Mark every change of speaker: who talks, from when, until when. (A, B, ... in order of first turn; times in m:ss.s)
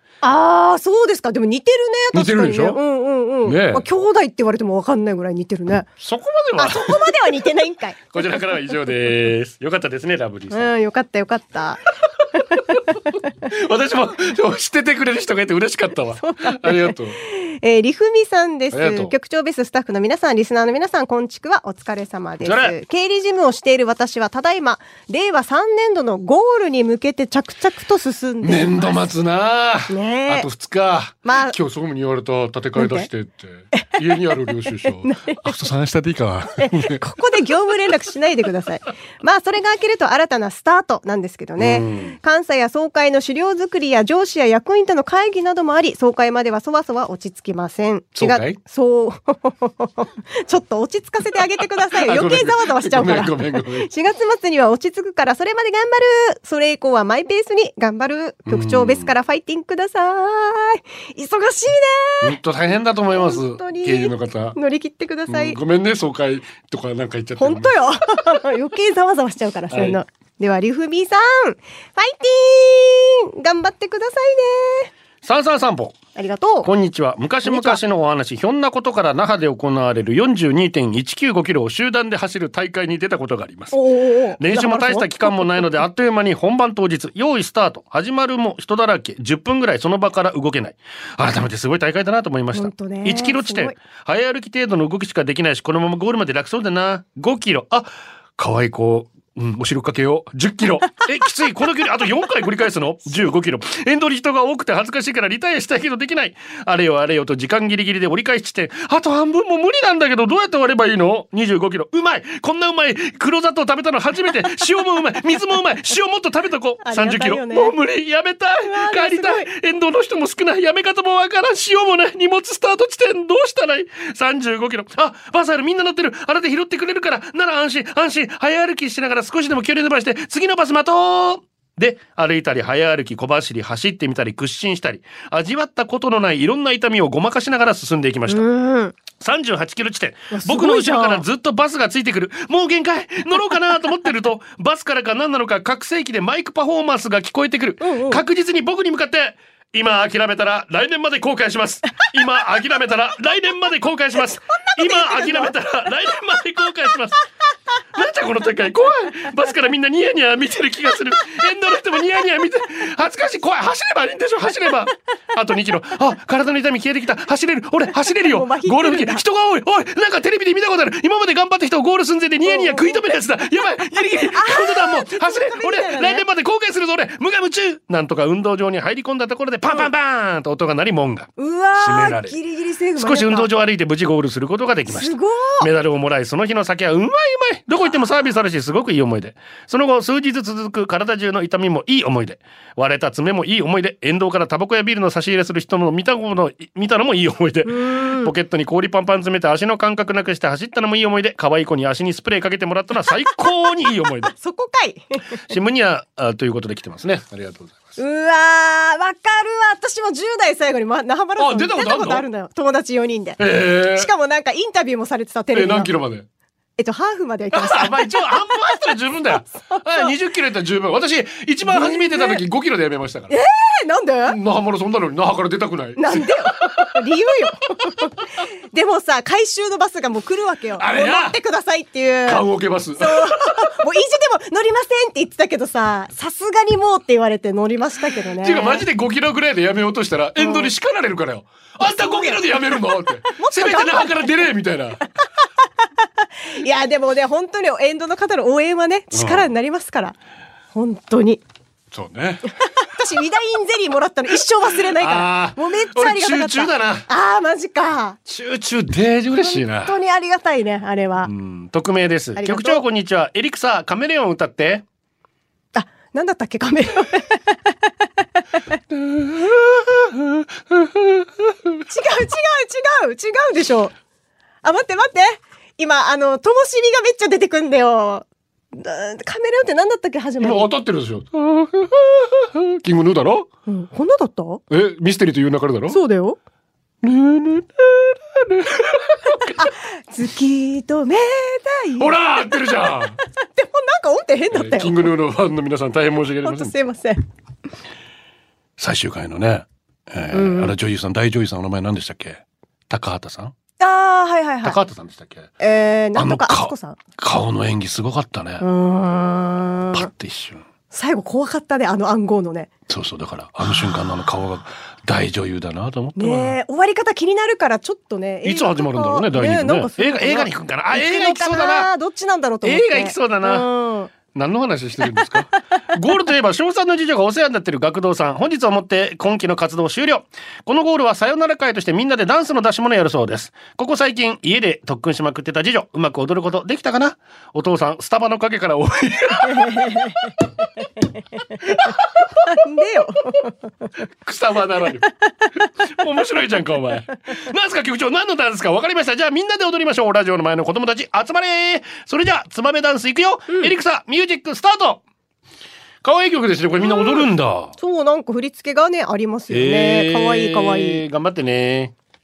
0:00.2-0:05.9 A
0:02.1-0:02.8 B
0:03.4-0:03.9 B
0:06.0-0:07.5 B
0:06.6-0:08.0 A
0:08.1-0:10.7 B
0:10.5-0:12.6 A
0:12.4-0:17.2 B
0:16.2-0:29.0 A
0:18.7-0:19.1 B
0:22.4-0:22.8 B
0:28.4-0:37.0 B
0:29.9-0:30.5 A
0:31.2-0:31.6 A
0:32.8-0:33.1 A
0:33.7-0:35.5 A
0:36.6-1:02.4 A
0:41.6-0:42.2 B
0:48.2-0:48.6 B
0:51.6-0:53.9 B
0:58.5-0:59.1 B
1:02.2-1:04.6 B
1:03.1-1:05.6 A
1:05.3-1:07.8 B
1:07.4-1:14.9 A
1:09.7-1:10.0 B
1:15.2-1:16.0 B
1:16.2-1:16.7 A
1:16.6-1:23.8 B
1:17.4-1:17.8 A
1:23.7-1:25.7 A
1:24.4-2:18.5 B
1:32.5-1:33.8 A
1:56.8-1:57.7 A
1:58.6-1:59.5 A
2:18.3-2:19.0 A
2:19.1-2:37.2 B
2:20.3-2:21.3 A
2:27.8-2:28.2 A
2:34.8-2:35.5 A
2:37.9-3:02.4 B
2:48.2-2:49.2 A
2:52.4-2:53.0 A
2:54.3-2:56.3 A
3:01.4-3:03.5 A
3:03.0-3:24.3 B
3:04.9-3:05.7 A
3:17.7-3:18.3 A
3:24.3-3:25.4 A
3:25.5-3:28.0 B
3:28.0-3:35.9 A
3:31.4-3:32.2 B
3:33.4-3:34.1 B
3:35.5-3:36.3 B
3:36.8-3:38.1 A
3:37.5-3:43.4 B
3:39.5-3:40.1 A
3:41.7-3:42.4 A
3:43.3-3:44.4 A
3:44.3-3:47.0 B
3:46.0-3:48.1 A
3:48.7-3:52.5 A
3:50.8-3:51.4 B
3:52.3-3:53.7 B
3:53.0-3:58.9 A
3:58.3-4:05.0 B
4:00.4-4:00.7 A
4:01.8-4:02.5 A
4:03.3-4:04.5 A
4:06.5-4:10.2 A
4:09.1-4:09.5 B
4:10.7-4:11.4 A
4:11.9-4:12.5 B
4:12.6-4:18.2 A
4:14.8-4:17.1 B
4:18.3-4:20.0 B
4:19.4-4:21.3 A
4:21.2-4:24.8 B
4:22.4-4:22.8 A
4:25.8-4:27.9 A
4:28.9-4:31.8 B
4:31.9-4:33.9 A
4:34.6-4:40.7 A
4:40.4-4:43.5 B
4:43.7-4:44.6 A
4:44.7-4:46.0 B
4:45.9-4:46.4 A
4:47.0-4:49.7 B
4:49.6-4:52.3 A
4:52.0-4:53.2 B
4:53.4-4:55.1 A
4:54.5-4:56.7 B
4:56.4-4:57.2 A
4:58.8-5:03.5 B
5:00.3-5:00.7 A
5:03.8-5:04.8 A
5:04.6-5:05.5 B
5:05.6-5:07.0 A
5:06.2-5:08.6 B
5:08.6-5:10.1 A
5:09.9-5:10.6 B
5:10.9-5:12.7 A
5:12.9-5:16.6 B
5:16.2-5:24.1 A
5:18.4-5:21.9 B
5:22.6-5:23.7 B
5:24.3-5:40.3 B
5:25.0-5:25.8 A
5:39.5-5:40.3 A
5:41.6-5:42.5 B
5:42.4-5:43.5 A
5:44.2-5:45.1 B
5:45.0-5:45.5 A
5:45.8-5:55.0 B
5:56.0-5:57.7 B
5:56.8-6:01.0 A
5:59.5-6:01.9 B